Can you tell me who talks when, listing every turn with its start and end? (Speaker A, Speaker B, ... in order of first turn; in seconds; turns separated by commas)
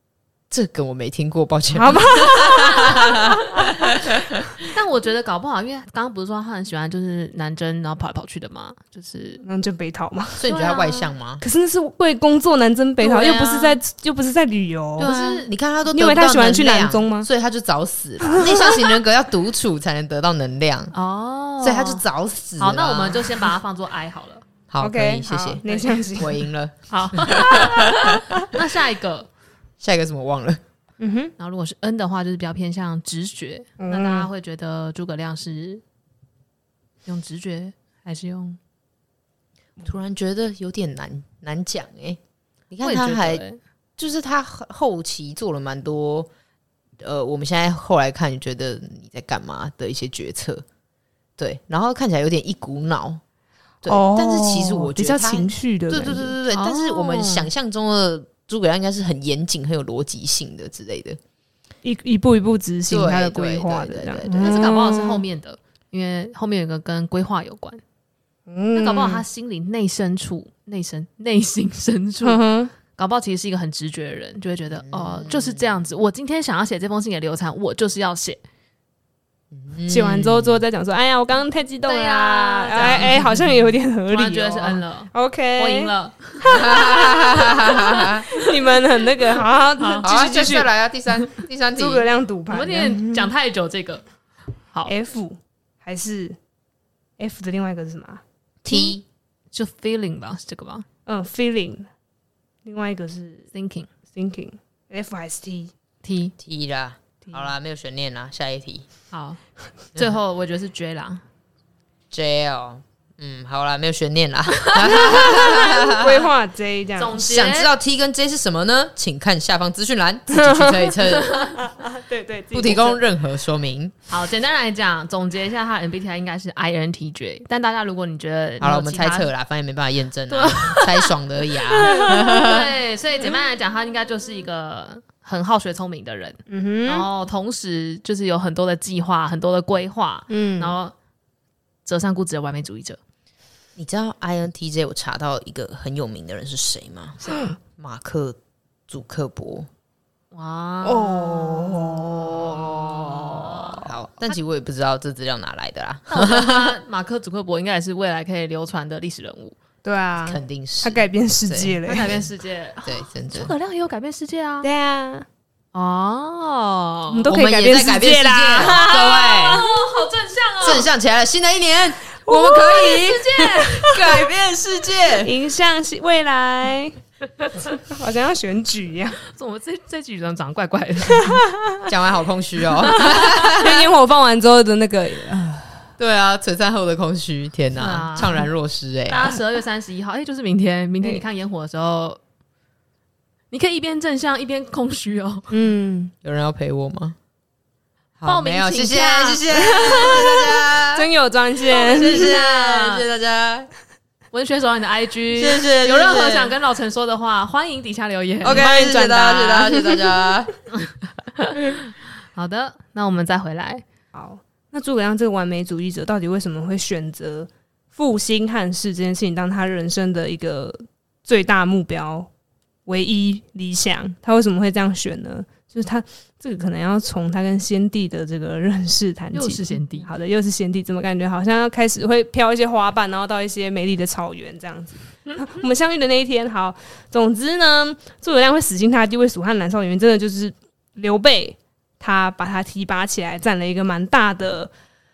Speaker A: 0.5-4.7, Speaker B: 1.7-3.4, Speaker C: 4.7-9.4, Speaker B: 9.4-10.4, Speaker A: 10.4-11.4, Speaker C: 10.5-11.1, Speaker B: 11.4-15.1, Speaker C: 13.0-13.7, Speaker A: 15.0-20.9, Speaker C: 15.0-15.5, Speaker B: 15.9-17.3, Speaker B: 18.2-18.9, Speaker C: 20.9-22.0, Speaker A: 21.6-23.5, Speaker C: 22.6-24.4, Speaker A: 24.7-25.6, Speaker B: 24.8-26.4, Speaker C: 25.6-26.1, Speaker A: 26.1-28.4, Speaker C: 26.9-29.3, Speaker A: 29.8-30.6, Speaker B: 31.0-31.3, Speaker C: 31.4-35.8, Speaker B: 33.8-34.3, Speaker C: 37.0-38.6, Speaker A: 39.8-43.4, Speaker C: 42.8-43.6, Speaker A: 44.0-46.3, Speaker A: 47.0-50.6, Speaker A: 51.4-53.2, Speaker A: 53.8-61.2, Speaker B: 53.9-56.4, Speaker C: 56.5-57.5, Speaker B: 61.8-65.2, Speaker A: 62.9-64.5, Speaker C: 64.4-67.8, Speaker B: 68.5-69.2, Speaker C: 68.7-72.4, Speaker B: 72.2-72.7, Speaker C: 73.0-78.4, Speaker A: 74.8-75.7, Speaker A: 79.5-80.6, Speaker B: 79.9-90.7, Speaker C: 81.8-83.3, Speaker C: 84.1-88.5, Speaker A: 86.5-88.3, Speaker C: 89.8-90.1, Speaker A: 90.0-92.1, Speaker B: 91.8-93.3, Speaker C: 92.5-94.0, Speaker B: 94.9-96.4, Speaker B: 97.2-98.2, Speaker A: 98.6-99.0, Speaker C: 98.7-99.0, Speaker C: 99.5-100.9, Speaker B: 101.1-101.9, Speaker B: 102.7-103.5, Speaker C: 103.5-103.9, Speaker B: 104.1-105.7, Speaker C: 106.0-106.3, Speaker A: 106.4-108.9, Speaker C: 109.1-109.4, Speaker C: 109.9-111.2, Speaker A: 112.1-116.3, Speaker C: 114.6-115.5, Speaker B: 115.3-117.2, Speaker C: 117.0-117.7, Speaker A: 117.1-121.5, Speaker B: 120.3-121.0, Speaker C: 121.2-121.6, Speaker B: 121.5-123.0, Speaker A: 122.5-123.9, Speaker C: 124.1-129.3, Speaker A: 128.6-132.7, Speaker C: 130.3-131.2, Speaker C: 131.7-140.9, Speaker B: 131.8-132.1, Speaker B: 136.5-137.1, Speaker B: 140.3-140.8, Speaker C: 141.8-143.0, Speaker A: 143.8-149.7, Speaker B: 147.3-147.6, Speaker C: 150.3-153.9, Speaker B: 150.8-153.6, Speaker A: 152.8-153.2, Speaker A: 153.7-156.8, Speaker C: 156.1-159.6, Speaker B: 159.8-162.1, Speaker A: 160.2-162.3, Speaker C: 161.8-164.7, Speaker A: 162.8-163.5, Speaker B: 164.6-165.3, Speaker C: 165.7-167.3, Speaker B: 167.1-169.7, Speaker A: 167.3-169.6, Speaker C: 168.6-170.9, Speaker A: 170.6-175.3, Speaker B: 172.3-172.6, Speaker C: 172.4-173.9, Speaker B: 175.2-177.0, Speaker B: 177.7-179.2, Speaker C: 179.2-181.4, Speaker B: 181.2-181.9, Speaker A: 181.9-183.9, Speaker B: 182.8-185.8, Speaker A: 186.0-189.4, Speaker C: 187.8-188.5, Speaker C: 189.1-192.2, Speaker C: 193.5-195.5, Speaker B: 195.5-196.1, Speaker A: 196.2-197.2, Speaker A: 198.2-201.1, Speaker C: 198.2-200.2, Speaker B: 199.5-202.3, Speaker A: 201.7-203.7, Speaker C: 201.9-203.1, Speaker C: 204.3-208.7, Speaker A: 205.4-206.5, Speaker A: 208.4-210.6, Speaker B: 208.4-210.3, Speaker C: 211.4-213.8, Speaker B: 214.1-222.3, Speaker B: 222.9-244.7, Speaker C: 229.3-230.1